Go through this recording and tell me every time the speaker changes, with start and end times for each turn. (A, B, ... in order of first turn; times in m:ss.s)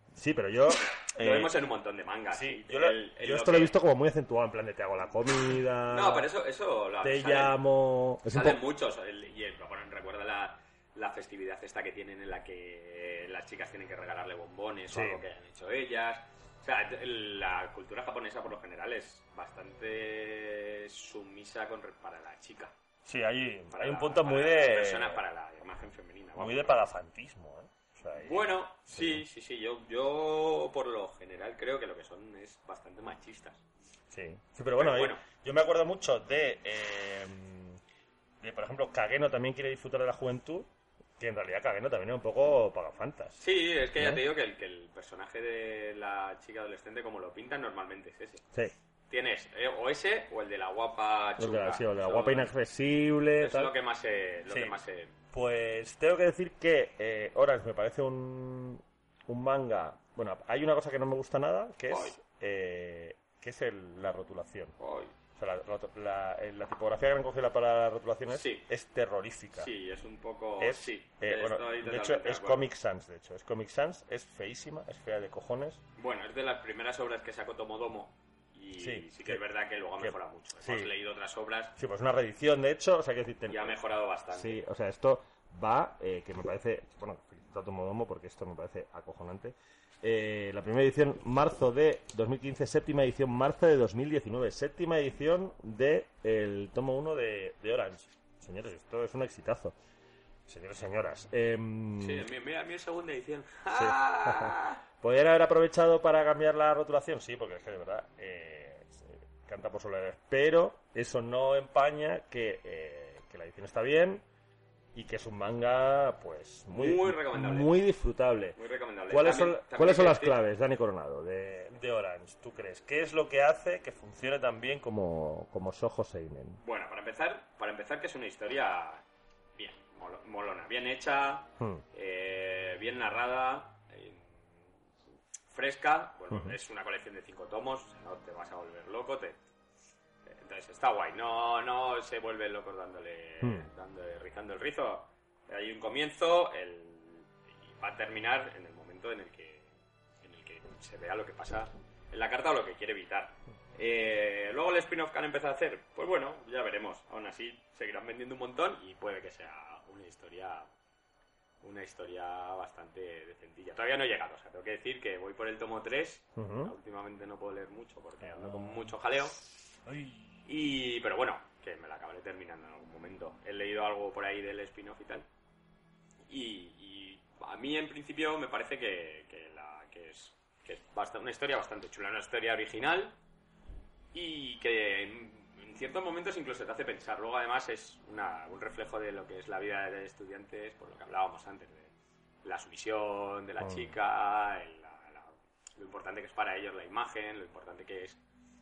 0:00.1-0:01.6 A
0:01.2-0:03.8 B
0:02.3-0:06.3 A
0:05.9-0:07.6 B
0:07.0-0:08.6 A
0:08.2-0:22.7 B
0:14.9-0:15.2 A
0:23.1-0:25.2 A
0:23.7-0:26.9 B
0:26.4-0:29.2 A
0:28.2-0:33.6 B
0:34.1-0:37.8 A
0:34.8-0:35.2 B
0:38.4-0:40.7 A
0:41.2-0:43.4 A
0:43.4-0:48.4 B
0:44.0-0:44.2 A
0:49.1-0:52.5 B
0:51.4-0:53.7 A
0:53.4-0:55.2 B
0:54.5-0:54.8 A
0:55.3-1:04.8 A
1:01.9-1:02.2 B
1:04.8-1:05.1 B
1:05.4-1:09.7 A
1:08.3-1:08.7 B
1:09.6-1:12.7 B
1:10.6-1:15.8 A
1:16.0-1:21.8 B
1:18.8-1:19.4 A
1:20.0-1:20.9 A
1:21.8-1:23.8 A
1:23.5-1:24.6 B
1:24.3-1:39.8 A
1:40.5-1:42.3 A
1:42.0-1:44.8 B
1:43.7-1:54.2 A
1:54.9-1:58.6 A
1:56.7-1:57.8 B
1:58.6-2:00.4 B
1:59.1-2:06.6 A
2:06.6-2:09.0 B
2:09.6-2:14.7 B
2:15.5-2:19.4 B
2:16.3-2:16.6 A
2:20.3-2:40.7 B
2:23.4-2:23.7 A
2:41.6-2:49.4 B
2:46.4-2:46.7 A
2:48.2-2:49.0 A
2:49.8-2:50.4 A
2:50.5-2:55.3 B
2:56.3-3:03.2 B
3:04.1-3:11.9 B
3:12.4-3:18.2 B
3:13.6-3:14.0 A